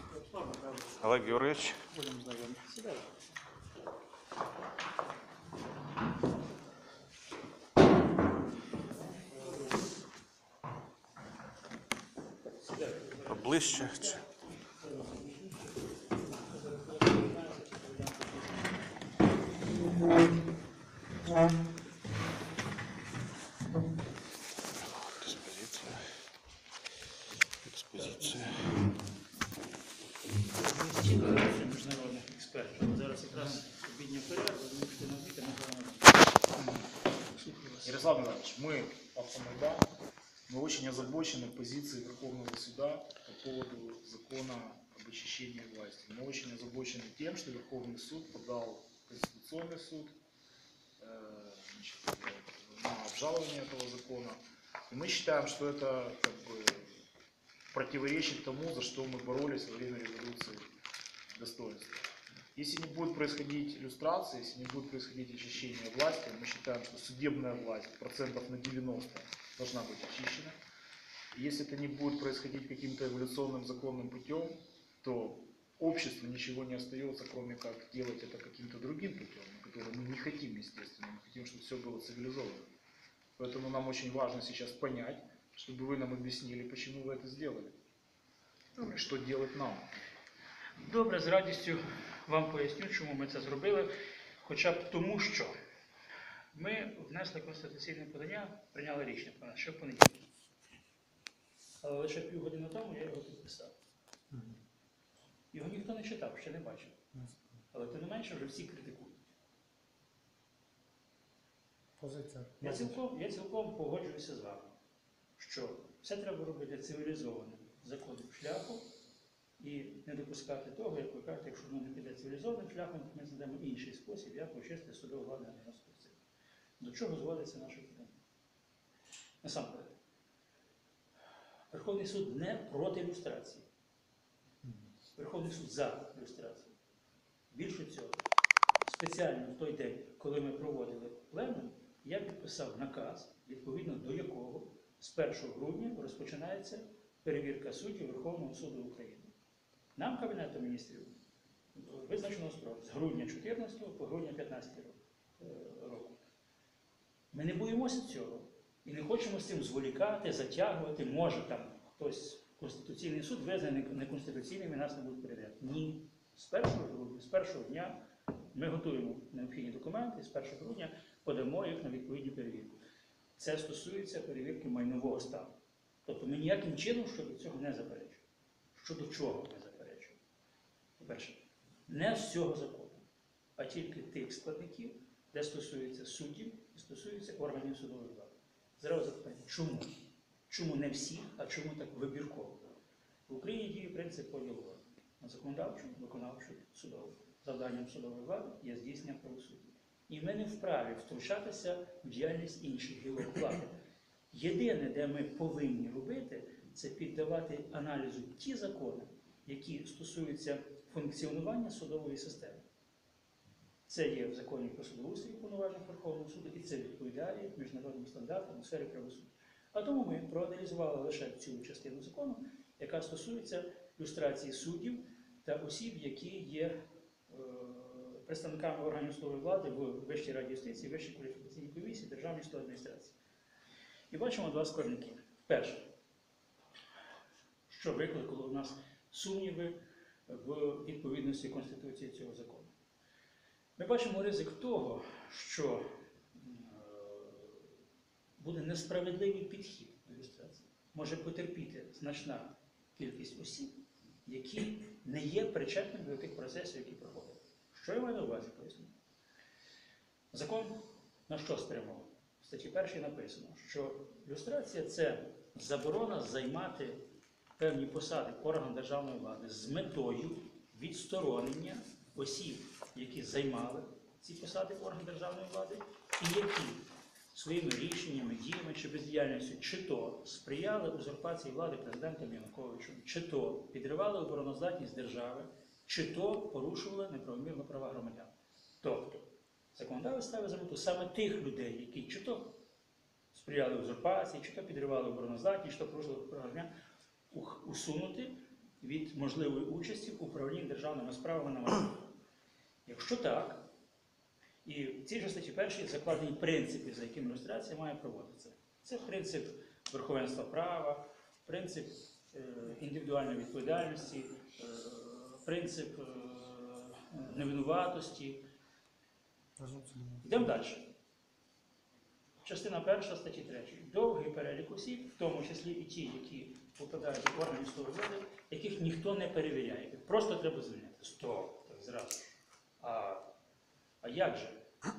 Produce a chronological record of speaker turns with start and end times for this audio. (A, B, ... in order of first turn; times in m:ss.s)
0:00.3-0:01.8 A
0:01.4-0:03.2 B
0:12.6-0:14.2 B
0:13.4-0:14.2 A
0:14.9-0:15.5 B
0:16.5-0:18.4 B
0:24.8-0:26.2 A
0:27.7-0:28.8 A
0:30.4-0:36.3 B
0:36.6-0:36.8 C
0:37.2-0:38.0 B
0:37.8-0:39.9 C
0:40.5-0:50.2 C
0:51.0-0:57.0 C
0:57.7-1:00.7 C
1:01.3-1:10.6 C
1:11.3-1:22.6 C
1:23.4-1:27.8 C
1:28.8-1:29.9 C
1:30.8-1:33.9 B
1:34.4-1:35.5 B
1:36.5-1:40.2 B
1:41.8-1:43.7 B
1:44.3-1:44.6 D
1:45.5-1:47.0 B
1:47.7-1:49.2 B
1:52.0-1:52.9 D
1:52.6-1:54.7 B
1:55.4-1:58.8 B
1:59.6-2:06.2 B
2:06.8-2:08.2 B
2:09.4-2:09.9 B
2:11.7-2:13.7 B
2:15.2-2:16.7 B
2:17.5-2:18.2 B
2:18.8-2:29.3 B
2:30.0-2:31.1 B
2:31.8-2:36.2 B
2:37.3-2:48.0 B
2:48.5-2:52.8 B
2:53.4-2:58.2 B
2:58.8-3:00.2 B
3:01.0-3:03.0 B
3:03.6-3:09.9 B
3:10.5-3:12.7 B
3:13.3-3:23.7 B
3:24.3-3:32.6 B
3:33.9-3:46.8 B
3:47.3-3:53.2 B
3:54.1-3:55.9 B
3:57.7-4:02.7 B
4:03.8-4:07.7 B
4:08.4-4:18.9 B
4:20.3-4:27.0 B
4:27.6-4:52.6 B
4:53.3-4:56.7 B
4:57.3-5:02.0 B
5:02.8-5:03.7 B
5:04.6-5:18.4 B
5:19.6-5:20.2 D
5:20.2-5:20.9 B
5:22.4-5:33.2 B
5:34.0-5:34.6 B